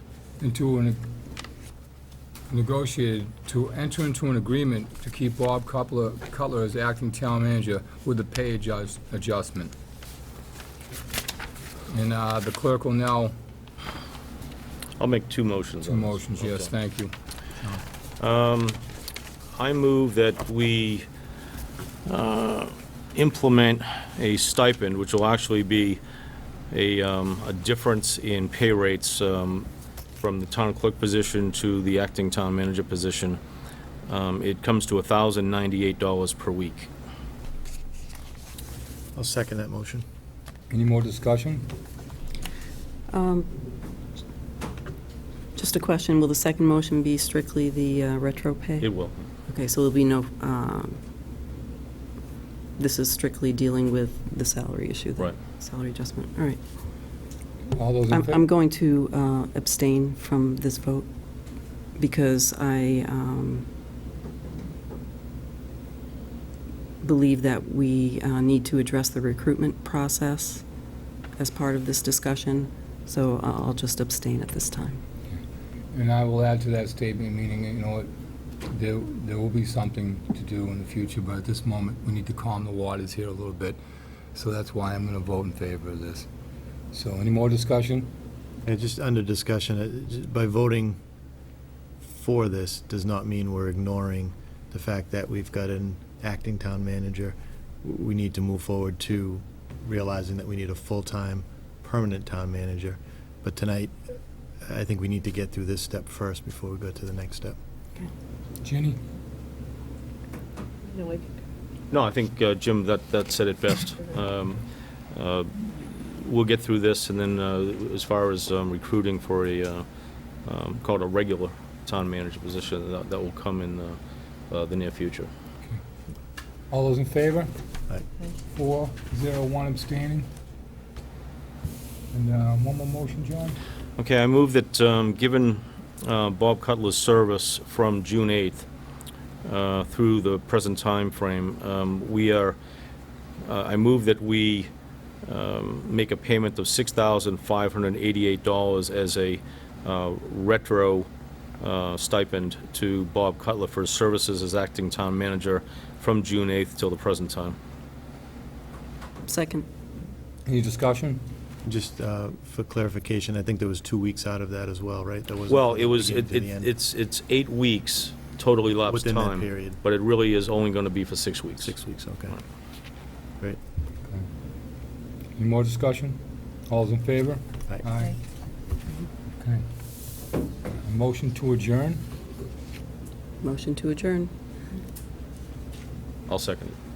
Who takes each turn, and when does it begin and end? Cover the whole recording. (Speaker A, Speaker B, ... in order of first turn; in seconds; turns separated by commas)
Speaker A: 0.4-1.0, Speaker A: 2.5-9.7, Speaker A: 11.9-13.3, Speaker B: 15.0-16.7, Speaker A: 15.8-17.8, Speaker B: 18.2-18.8, Speaker B: 19.5-21.1, Speaker B: 22.1-26.0, Speaker B: 26.7-33.4, Speaker B: 34.0-36.9, Speaker C: 39.1-40.0, Speaker A: 40.7-41.6, Speaker D: 43.1-43.5, Speaker D: 45.5-48.9, Speaker B: 48.8-49.2, Speaker D: 49.5-51.0, Speaker D: 52.8-56.6, Speaker A: 57.7-58.4, Speaker D: 58.1-61.1, Speaker D: 62.0-63.6, Speaker D: 67.0-70.6, Speaker D: 71.4-75.0, Speaker A: 75.9-78.1, Speaker A: 78.7-83.8, Speaker A: 84.3-86.3, Speaker A: 86.9-88.1, Speaker C: 88.6-91.0, Speaker C: 92.0-107.6, Speaker A: 108.6-109.0, Speaker B: 111.9-119.8, Speaker B: 120.4-124.0, Speaker B: 124.5-125.3, Speaker A: 126.7-127.5, Speaker A: 128.5-130.3, Speaker A: 132.1-133.6, Speaker B: 134.0-138.7, Speaker B: 139.4-142.6, Speaker B: 143.4-144.7, Speaker B: 145.2-151.1, Speaker B: 151.6-157.6, Speaker D: 159.3-159.7, Speaker A: 160.4-161.2, Speaker C: 161.6-166.7, Speaker B: 165.5-171.7, Speaker C: 168.9-169.8, Speaker C: 171.6-172.4, Speaker A: 175.4-178.2, Speaker A: 180.8-182.0, Speaker D: 183.4-184.3, Speaker B: 186.3-186.8